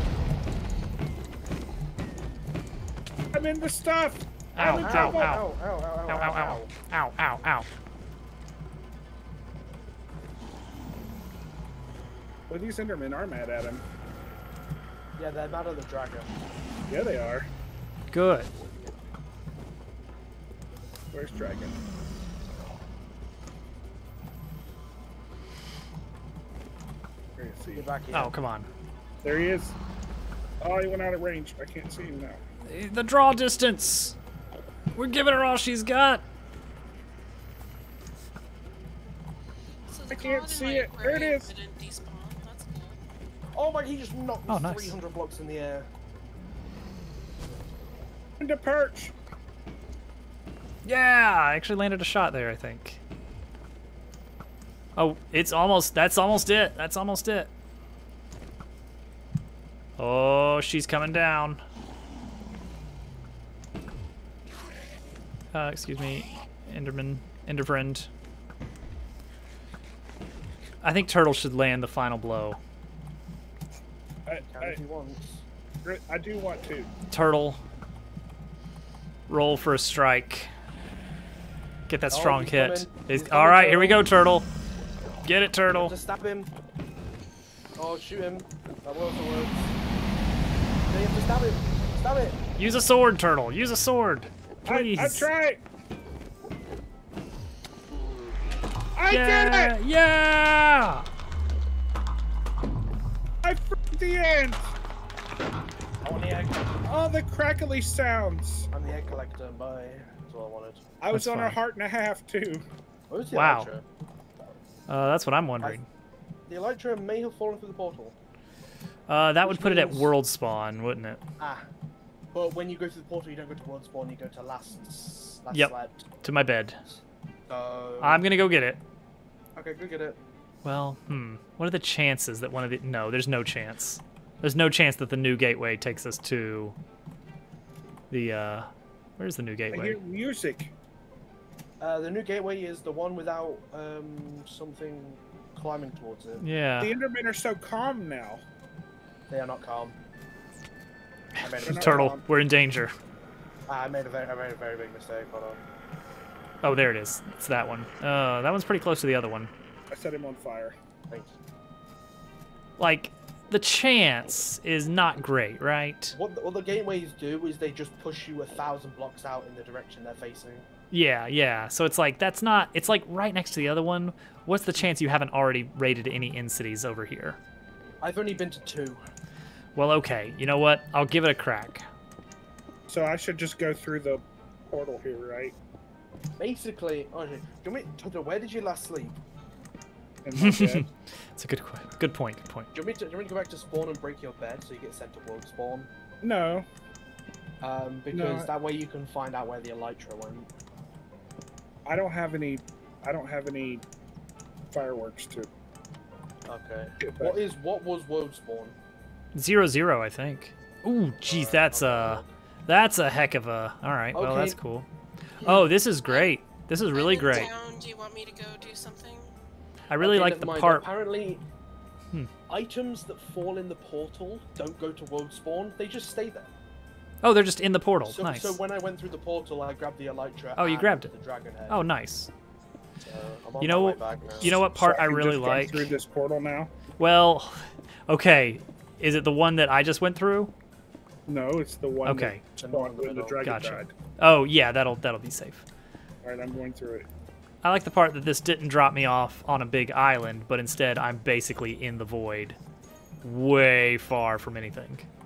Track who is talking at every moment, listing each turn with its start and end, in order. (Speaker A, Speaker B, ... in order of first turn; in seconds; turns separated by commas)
Speaker A: 3.3-5.4, Speaker B: 4.5-5.5, Speaker C: 4.6-6.7, Speaker B: 6.1-7.7, Speaker A: 12.5-13.8, Speaker C: 15.2-16.3, Speaker A: 16.9-17.5, Speaker B: 18.1-18.5, Speaker A: 21.1-21.8, Speaker A: 27.4-27.9, Speaker C: 27.7-28.3, Speaker B: 28.1-28.7, Speaker A: 29.2-29.8, Speaker A: 30.6-32.4, Speaker B: 32.6-34.1, Speaker B: 34.9-36.2, Speaker D: 39.9-43.0, Speaker A: 40.1-41.5, Speaker C: 43.5-45.9, Speaker B: 44.5-44.9, Speaker A: 48.4-49.1, Speaker B: 50.8-53.0, Speaker B: 55.0-57.5, Speaker B: 60.0-61.6, Speaker B: 65.5-68.1, Speaker B: 70.8-72.6, Speaker A: 74.3-74.8, Speaker C: 74.4-75.4, Speaker A: 75.8-76.9, Speaker B: 77.1-77.6, Speaker B: 79.3-80.5, Speaker B: 81.9-84.5, Speaker C: 82.1-84.0, Speaker B: 85.2-85.9, Speaker C: 85.7-86.5, Speaker C: 87.8-89.7, Speaker C: 90.9-92.4, Speaker B: 92.6-95.3, Speaker A: 94.7-95.6, Speaker A: 98.9-99.7, Speaker B: 99.1-101.1, Speaker A: 103.4-104.7, Speaker C: 106.0-106.8, Speaker A: 106.8-108.7, Speaker C: 108.7-110.8, Speaker A: 111.0-112.7, Speaker B: 111.1-111.6, Speaker C: 113.1-113.8, Speaker B: 113.3-113.7, Speaker B: 114.9-115.8, Speaker C: 116.5-118.1, Speaker B: 119.1-121.2, Speaker C: 119.4-120.1, Speaker C: 121.4-121.7, Speaker C: 122.3-126.1, Speaker B: 125.5-126.8, Speaker C: 127.5-128.2, Speaker B: 128.0-128.8, Speaker C: 129.6-130.2, Speaker B: 130.6-136.8, Speaker B: 138.1-140.0, Speaker A: 139.7-140.7, Speaker C: 141.8-146.4, Speaker B: 146.4-146.9, Speaker A: 146.8-148.4, Speaker C: 149.3-150.0, Speaker C: 151.4-152.2, Speaker A: 151.4-152.2, Speaker B: 151.6-152.9, Speaker C: 153.7-155.6, Speaker B: 156.6-159.5, Speaker A: 159.9-160.8, Speaker C: 161.1-161.3, Speaker B: 162.8-166.2, Speaker C: 166.1-170.6, Speaker B: 170.9-177.4, Speaker C: 178.0-179.0, Speaker B: 179.8-181.8, Speaker A: 182.9-185.5, Speaker C: 186.4-189.2, Speaker A: 190.2-190.9, Speaker B: 190.3-192.7, Speaker C: 192.7-195.9, Speaker A: 196.2-196.7, Speaker C: 197.6-200.5, Speaker A: 198.1-198.5, Speaker A: 201.8-203.8, Speaker A: 204.7-205.5, Speaker C: 206.4-208.8, Speaker A: 207.0-207.4, Speaker B: 209.3-214.9, Speaker C: 211.2-212.3, Speaker C: 214.1-214.6, Speaker B: 215.4-217.5, Speaker D: 216.1-216.3, Speaker D: 216.9-219.3, Speaker B: 219.9-220.9, Speaker C: 220.0-221.4, Speaker C: 222.5-226.5, Speaker B: 227.2-228.6, Speaker C: 228.1-231.8, Speaker B: 230.6-231.1, Speaker B: 231.7-232.3, Speaker C: 233.0-234.6, Speaker B: 233.6-235.9, Speaker A: 234.4-236.7, Speaker B: 237.0-240.5, Speaker A: 241.2-243.9, Speaker B: 242.0-242.4, Speaker C: 242.6-243.4, Speaker B: 243.4-245.7, Speaker A: 246.2-247.1, Speaker B: 247.6-252.6, Speaker B: 253.2-255.1